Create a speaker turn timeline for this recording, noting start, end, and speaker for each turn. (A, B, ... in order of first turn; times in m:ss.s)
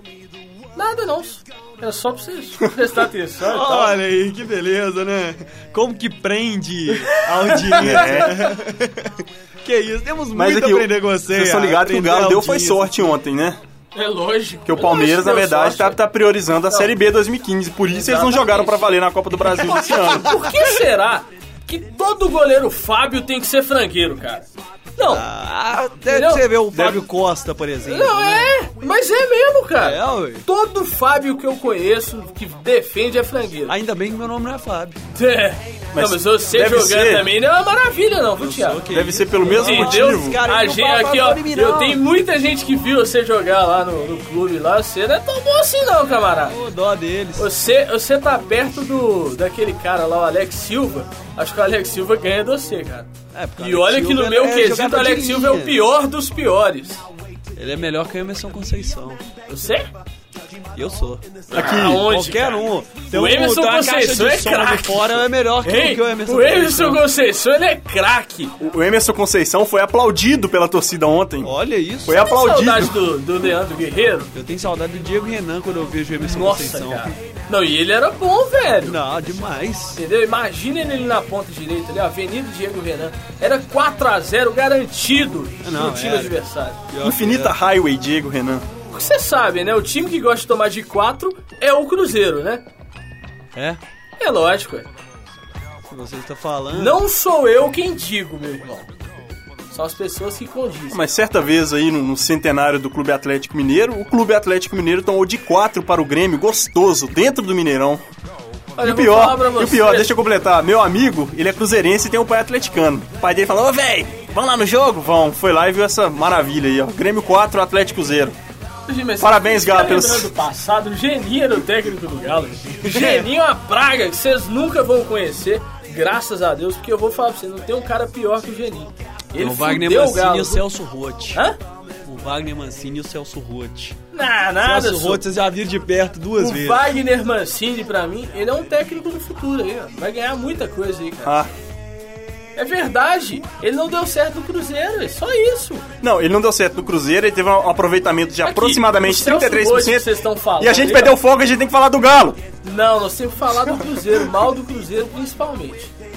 0:00.8-0:04.0 A
0:03.4-0:13.2 B
0:07.1-0:08.2 A
0:07.8-0:08.4 C
0:10.3-0:13.6 C
0:14.0-0:16.0 A
0:14.7-0:20.5 C
0:18.0-0:18.9 A
0:19.9-0:25.3 A
0:25.1-0:28.5 B
0:26.1-0:26.5 A
0:26.7-0:27.0 C
0:27.8-0:33.7 A
0:29.8-0:30.4 B
0:33.7-0:35.0 B
0:35.2-0:38.8 A
0:35.9-0:37.3 C
0:38.3-0:42.0 B
0:38.9-0:40.4 C
0:39.4-0:46.6 A
0:46.4-0:47.5 B
0:47.4-0:57.0 A
0:53.3-0:55.8 B
0:57.6-0:59.2 B
0:59.5-0:59.9 A
1:00.8-1:07.0 B
1:01.5-1:08.5 A
1:01.5-1:02.0 C
1:08.6-1:11.5 C
1:11.4-1:12.3 B
1:12.1-1:13.0 C
1:12.3-1:14.3 A
1:14.3-1:17.1 B
1:16.2-1:19.0 A
1:18.7-1:20.0 B
1:20.0-1:26.8 A
1:25.6-1:26.4 B
1:26.9-1:27.6 B
1:27.0-1:28.7 C
1:28.9-1:32.6 A
1:33.6-1:33.8 B
1:34.2-1:34.9 A
1:35.9-1:37.0 B
1:36.7-1:38.9 A
1:39.7-1:41.0 A
1:40.9-1:48.0 C
1:48.8-1:50.1 A
1:48.8-1:58.4 C
1:58.9-2:10.7 A
1:59.2-2:00.3 C
2:02.9-2:03.3 B
2:09.4-2:11.4 B
2:12.0-2:14.0 B
2:14.1-2:15.2 A
2:14.6-2:17.0 B
2:16.4-2:21.4 A
2:21.2-2:21.5 C
2:22.6-2:25.9 A
2:26.0-2:30.1 C
2:28.4-2:31.2 A
2:30.6-2:32.4 C
2:32.6-2:35.9 A